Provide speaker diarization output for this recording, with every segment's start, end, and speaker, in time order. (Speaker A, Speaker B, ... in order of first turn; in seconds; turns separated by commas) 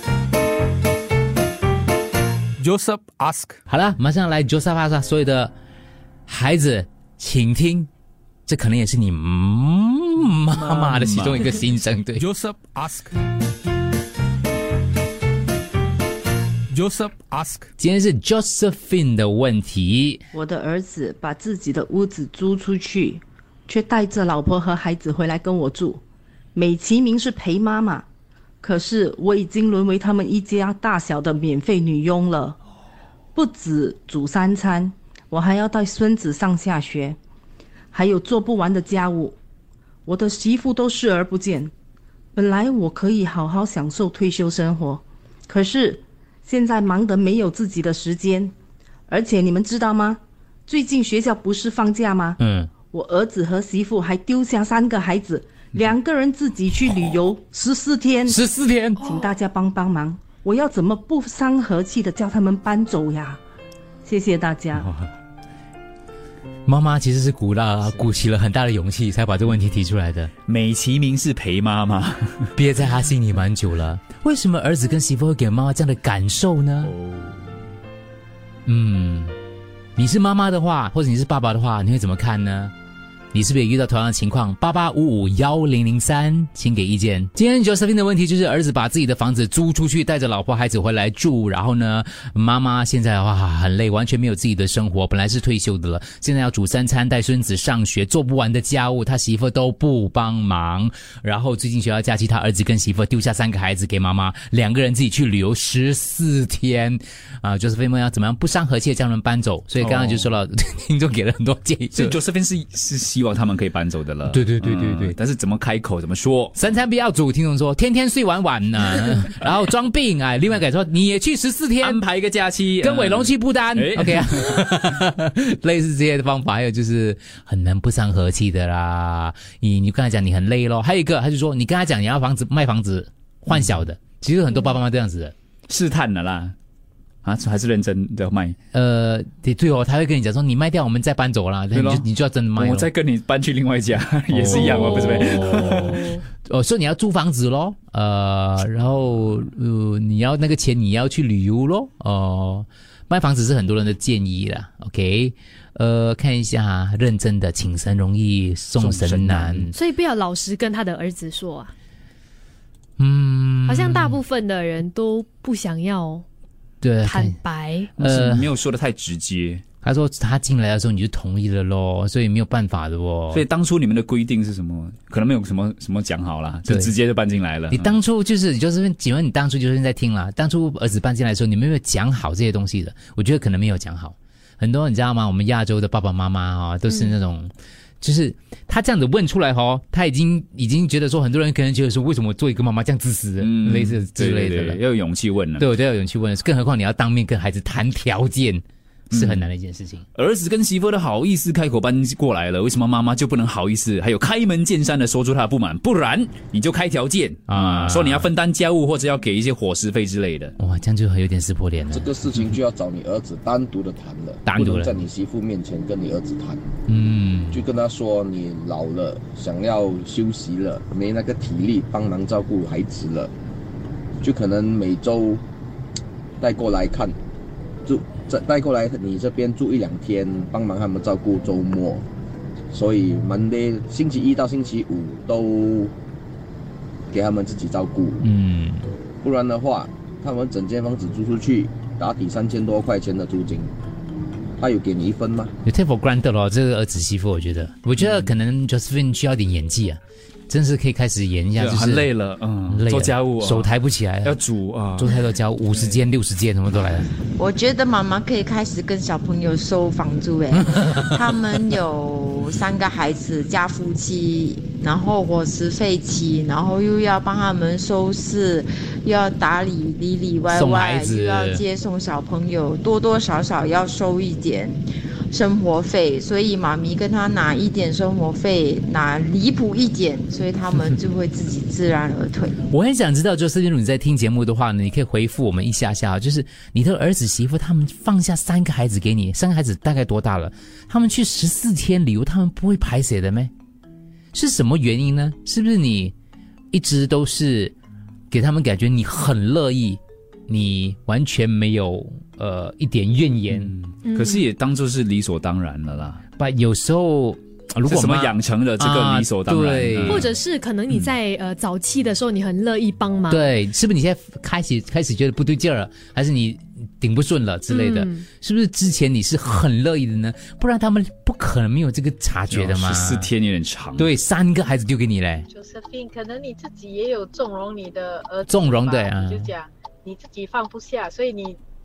Speaker A: 2.6-3.6, Speaker B: 3.7-5.5, Speaker B: 6.3-7.9, Speaker B: 8.5-12.2, Speaker C: 10.5-11.5, Speaker A: 12.2-13.1, Speaker A: 16.7-17.7, Speaker B: 17.8-20.2, Speaker D: 20.3-26.0, Speaker D: 26.5-28.1, Speaker D: 28.6-32.6, Speaker D: 33.3-37.2, Speaker D: 37.9-39.4, Speaker D: 40.0-41.7, Speaker D: 42.3-48.5, Speaker D: 49.1-58.4, Speaker B: 52.4-52.7, Speaker B: 58.3-59.0, Speaker E: 59.0-59.3, Speaker D: 59.0-63.4, Speaker D: 64.0-64.8, Speaker B: 66.7-70.3, Speaker C: 70.5-72.5, Speaker B: 72.5-76.9, Speaker C: 76.8-77.6, Speaker B: 78.7-79.3, Speaker B: 80.0-82.7, Speaker B: 83.3-112.2, Speaker C: 109.8-110.3, Speaker C: 111.9-116.5, Speaker B: 114.3-115.2, Speaker B: 116.5-122.0, Speaker C: 121.8-124.6, Speaker B: 122.8-135.3, Speaker C: 135.7-136.5, Speaker C: 137.2-138.6, Speaker B: 138.7-142.9, Speaker C: 141.7-146.0, Speaker B: 144.3-159.7, Speaker E: 144.5-146.2, Speaker C: 158.8-159.7, Speaker E: 159.7-161.7, Speaker B: 163.0-164.2, Speaker E: 163.7-166.2, Speaker B: 166.8-167.4, Speaker E: 167.0-167.9, Speaker B: 168.0-168.5, Speaker C: 168.0-169.6, Speaker B: 169.8-173.4, Speaker C: 173.3-177.9, Speaker B: 176.7-176.9, Speaker B: 177.7-194.8, Speaker C: 193.4-195.7, Speaker B: 195.6-200.0, Speaker C: 199.1-199.4, Speaker C: 200.1-210.5, Speaker B: 207.5-208.3, Speaker B: 210.6-212.4, Speaker F: 211.9-216.7, Speaker B: 214.4-215.0, Speaker B: 216.9-217.6, Speaker F: 217.5-223.3, Speaker F: 224.2-225.4, Speaker F: 226.4-227.1, Speaker F: 227.8-232.0, Speaker F: 232.7-235.9, Speaker F: 237.1-238.2, Speaker B: 238.2-238.8, Speaker F: 239.2-243.7, Speaker F: 244.6-245.5, Speaker B: 245.6-252.1, Speaker C: 248.0-248.3, Speaker C: 251.6-253.7, Speaker B: 252.7-254.3, Speaker C: 254.2-255.1, Speaker B: 255.0-257.1, Speaker C: 255.7-256.0, Speaker G: 257.4-282.6, Speaker B: 260.5-261.2, Speaker B: 270.5-271.6, Speaker B: 282.7-293.5, Speaker B: 294.3-296.1, Speaker B: 296.7-297.7, Speaker B: 298.3-303.7, Speaker C: 303.5-306.2, Speaker E: 304.0-304.4, Speaker B: 306.4-310.2, Speaker C: 307.9-310.3, Speaker E: 310.1-313.5, Speaker B: 313.3-323.3, Speaker E: 317.7-318.2, Speaker C: 322.5-324.1, Speaker B: 324.0-325.5, Speaker H: 325.5-331.6, Speaker B: 328.5-329.5